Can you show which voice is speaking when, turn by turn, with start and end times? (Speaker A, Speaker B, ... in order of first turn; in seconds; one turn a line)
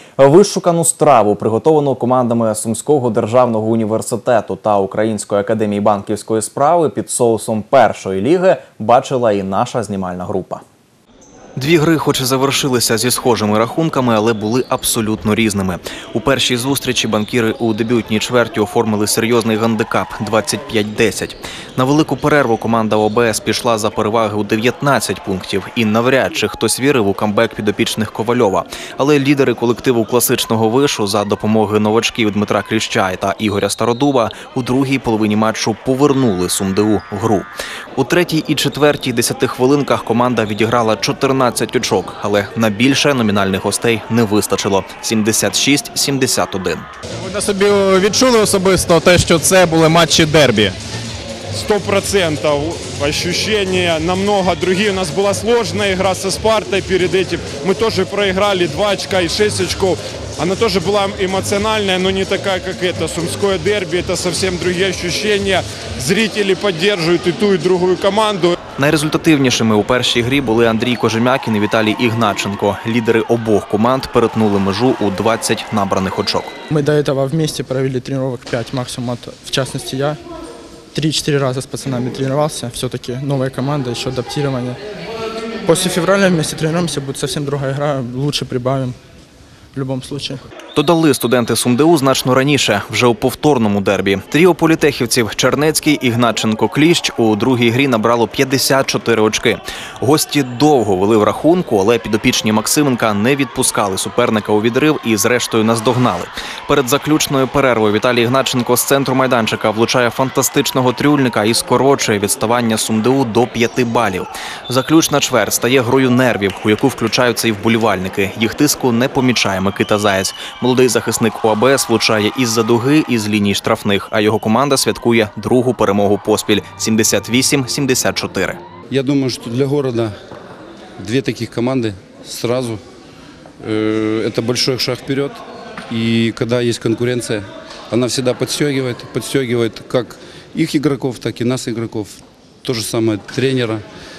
Speaker A: 0.2-10.6
Speaker A: 11.6-46.9
Speaker B: 47.2-50.8
Speaker C: 51.5-68.6
Speaker A: 68.8-76.5
Speaker D: 76.7-80.2
Speaker D: 80.9-84.8
Speaker D: 85.7-89.0
Speaker D: 89.7-90.4
Speaker A: 90.8-128.6
Speaker E: 128.9-130.1
Speaker E: 131.0-132.8
Speaker E: 133.6-143.8